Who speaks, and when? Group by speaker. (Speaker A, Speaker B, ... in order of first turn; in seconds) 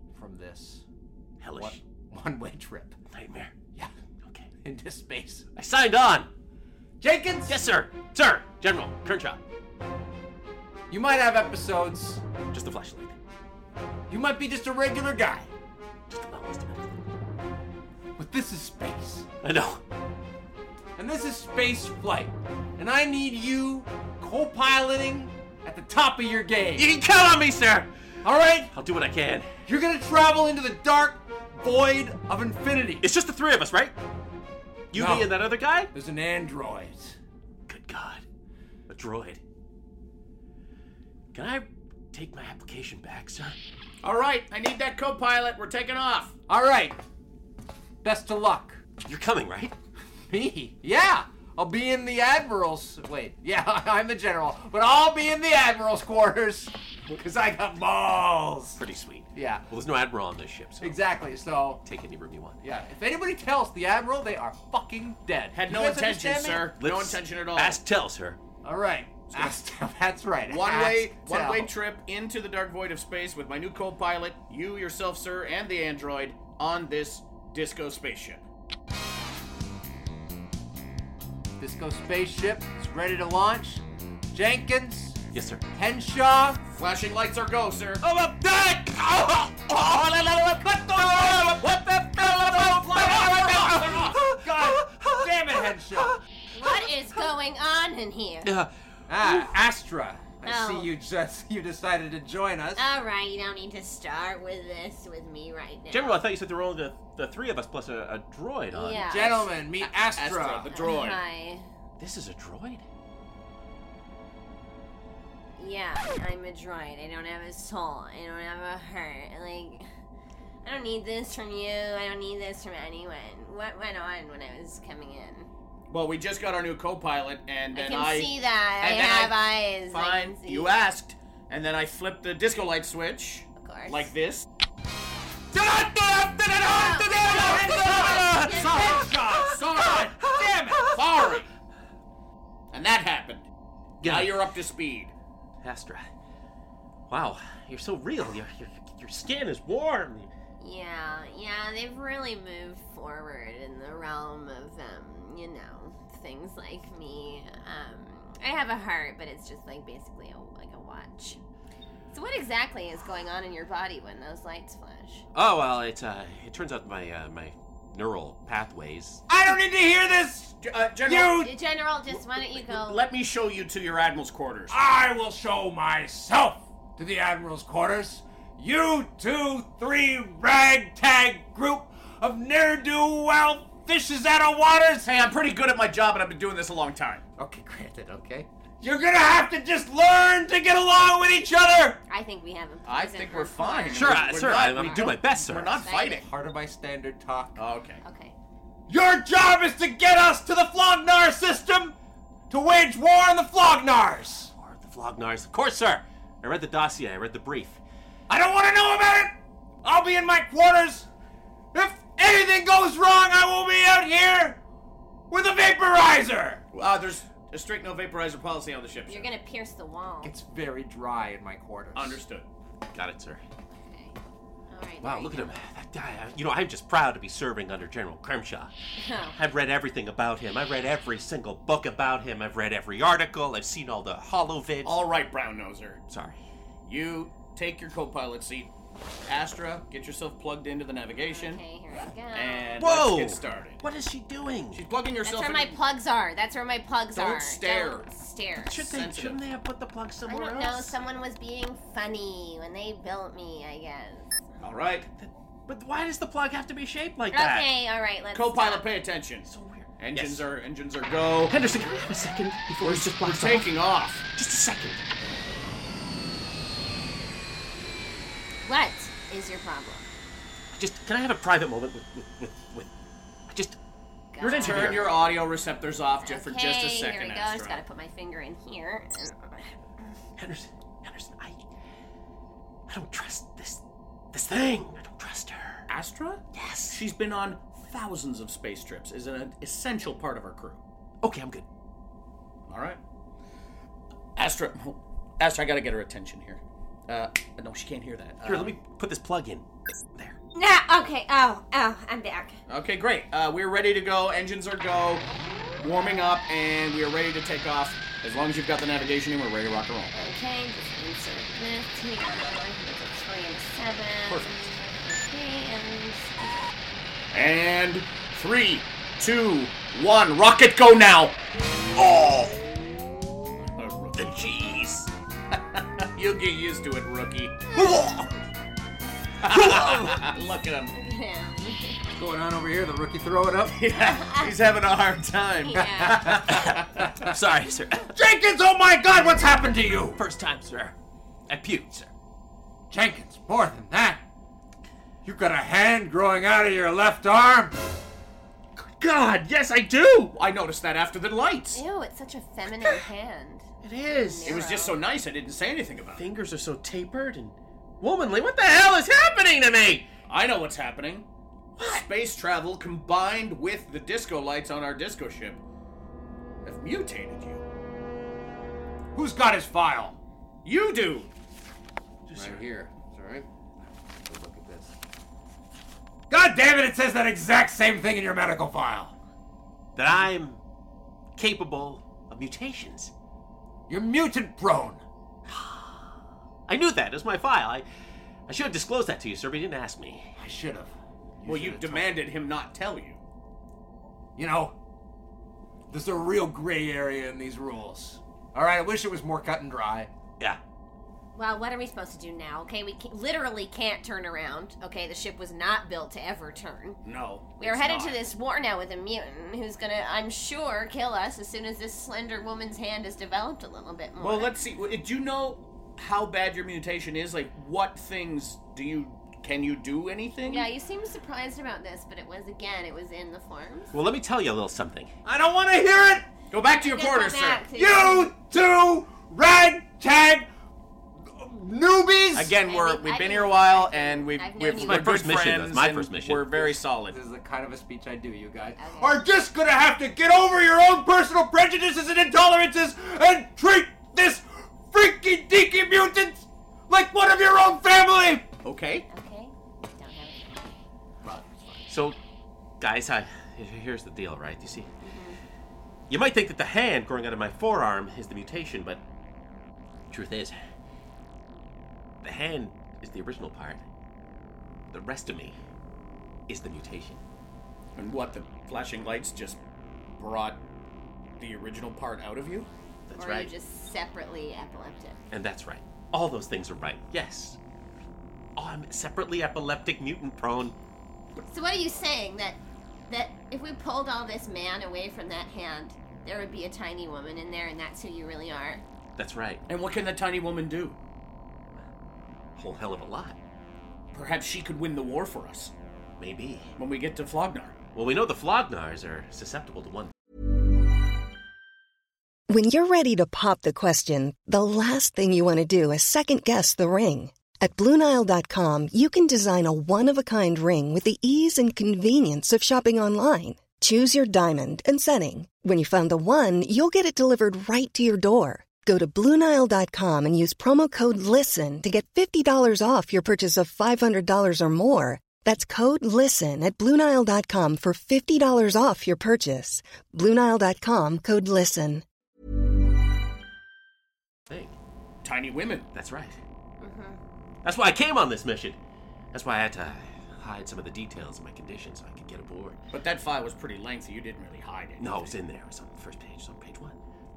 Speaker A: 0.1-0.8, 1.5-3.0, 4.6-5.5, 7.0-7.6, 10.9-12.2, 14.1-15.5, 18.2-19.3, 21.0-26.9, 28.2-28.7, 29.7-33.0, 34.9-37.2, 46.5-47.0, 48.0-48.8, 50.3-58.8, 59.4-59.7, 60.8-61.8, 62.6-66.7, 68.6-71.7, 81.6-85.2, 85.7-86.6, 88.0-96.2, 99.1-102.9, 109.0-110.8, 135.5-140.9, 169.3-171.5, 174.7-185.1, 187.4-192.0, 196.0-197.6, 198.9-201.9, 202.5-204.5, 208.3-211.1, 211.7-214.6, 215.3-216.6, 220.2-222.2, 327.7-328.4, 332.1-333.8, 335.8-337.4, 338.1-340.2, 342.9-344.2, 345.2-347.8, 369.1-370.2, 372.3-373.5, 374.2-374.9, 376.3-379.2, 383.9-385.0, 390.4-392.2, 394.4-394.8, 395.9-400.1, 425.2-426.3, 427.7-430.5, 431.3-432.6, 437.1-448.5
Speaker B: 1.4-1.8, 3.1-3.5, 4.2-4.5, 5.6-6.3, 7.5-9.4, 12.5-13.1, 16.1-17.1, 19.4-19.8, 26.8-27.9, 28.7-29.5, 33.0-34.0, 34.9-35.9, 37.7-38.2, 38.9-39.4, 41.3-43.5, 49.0-49.8, 58.8-61.2, 61.8-62.6, 66.8-68.4, 85.3-85.6, 89.8-90.6, 91.1-96.2, 98.5-98.7, 105.9-109.2, 112.0-112.8, 136.1-138.4, 140.6-141.0, 144.0-144.4, 145.6-146.1, 147.1-150.3, 165.3-169.2, 193.9-195.9, 204.6-207.8, 222.9-223.4, 225.0-228.7, 229.3-235.1, 236.1-236.4, 242.8-244.9, 248.6-250.9, 255.2-257.7, 259.5-260.5, 261.5-263.7, 264.3-265.0, 270.8-272.9, 273.5-273.8, 274.5-275.3, 280.4-281.6, 282.9-285.9, 286.5-287.0, 291.2-291.7, 298.4-300.4, 329.4-330.3, 336.4-338.1, 340.1-340.9, 341.5-342.1, 348.8-350.3, 353.8-354.7, 356.1-360.1, 361.8-362.0, 372.3-372.6, 380.0-380.6, 381.4-383.1, 386.7-387.9, 388.5-390.3, 423.9-425.1, 434.8-436.8, 451.9-452.2, 452.8-454.9, 456.1-459.0, 460.1-460.6, 462.2-463.9, 464.9-465.6, 466.5-467.2, 473.1-473.5, 475.3-477.6, 478.6-480.8, 489.2-489.6, 492.6-493.4, 496.2-496.7, 497.9-500.1, 534.5-534.8, 535.9-536.4, 537.6-538.8, 539.3-542.8, 545.0-547.0
Speaker C: 44.0-46.3, 65.5-67.8, 69.3-69.6, 70.5-78.4, 86.7-88.0, 109.8-111.2, 125.9-134.5, 139.6-139.9, 140.9-141.5, 142.7-143.5, 144.0-145.1, 170.6-171.5, 172.1-174.8, 185.0-187.2, 192.9-196.2, 197.6-198.0, 216.7-219.3, 221.9-222.5, 234.8-236.0, 236.9-238.7, 239.3-241.6, 242.3-243.8, 244.7-245.8, 247.1-248.1, 248.8-249.4, 254.6-255.1, 258.3-261.6, 262.8-264.2, 274.4-277.8, 285.9-290.8, 292.7-293.0, 294.4-298.8, 302.7-305.3, 305.8-310.2, 314.3-314.7, 317.3-321.4, 322.0-322.6, 323.8-327.6, 329.4-330.9, 333.7-337.1, 350.3-351.8, 354.4-356.3, 360.3-361.3, 361.8-365.6, 366.6-367.6, 370.6-371.3, 391.4-393.2, 407.1-408.3, 414.2-420.7, 426.5-427.7, 432.3-437.2, 448.6-449.1, 451.2-451.7, 468.0-469.6, 470.2-470.6, 471.4-472.7, 489.7-491.0, 494.1-495.7, 496.8-497.8, 535.2-535.9, 542.9-545.4
Speaker D: 96.5-98.5, 100.5-100.9, 102.8-106.2, 108.7-109.5, 110.7-111.7, 115.6-119.9, 120.6-125.5, 127.7-130.8, 133.6-134.1, 136.7-139.1, 150.6-161.4, 162.1-165.3, 171.3-173.1, 192.1-195.2, 195.8-196.2, 198.0-198.4, 219.1-220.3, 223.8-224.2, 224.7-225.6, 229.0-229.4, 241.3-242.8, 245.2-248.9, 250.3-254.3, 257.3-258.9, 268.6-270.1, 274.3-275.2, 276.2-279.7, 300.5-302.6, 310.1-316.7, 327.8-328.1, 330.9-332.0, 333.9-334.5, 335.6-336.4, 351.7-355.0, 401.3-407.0, 407.6-414.5, 420.4-423.9, 426.7-428.3, 432.6-435.2, 438.8-439.3, 449.1-450.8, 455.0-455.4, 473.2-475.2, 481.5-488.8, 536.8-537.2
Speaker E: 502.5-532.0